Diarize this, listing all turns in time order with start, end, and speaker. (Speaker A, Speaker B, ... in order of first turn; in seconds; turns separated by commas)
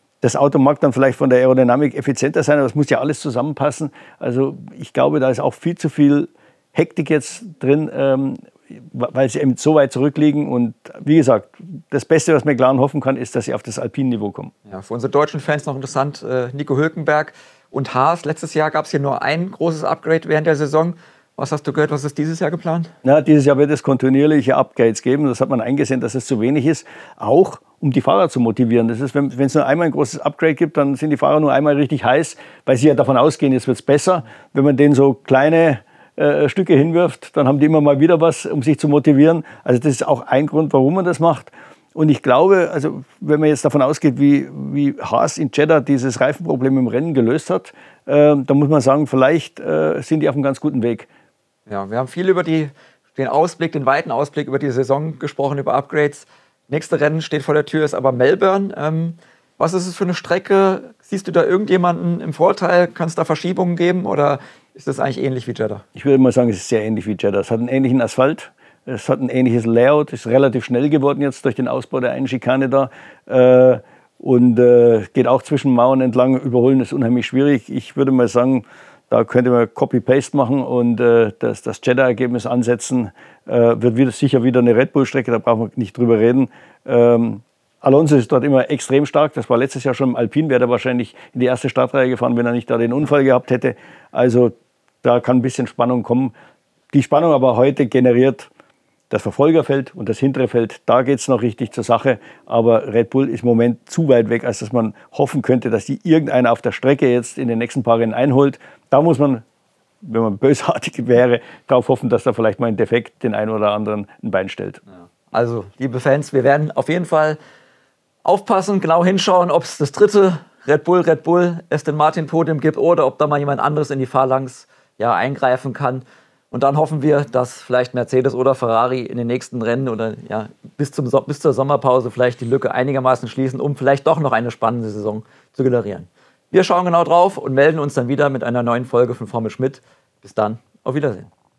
Speaker A: 0.2-14.5, Speaker B: 14.7-22.9, Speaker A: 23.0-51.1, Speaker B: 51.7-65.8, Speaker A: 66.0-96.3, Speaker A: 96.9-98.5, Speaker A: 99.1-109.4, Speaker A: 110.0-114.8, Speaker B: 115.3-117.4, Speaker B: 118.2-141.3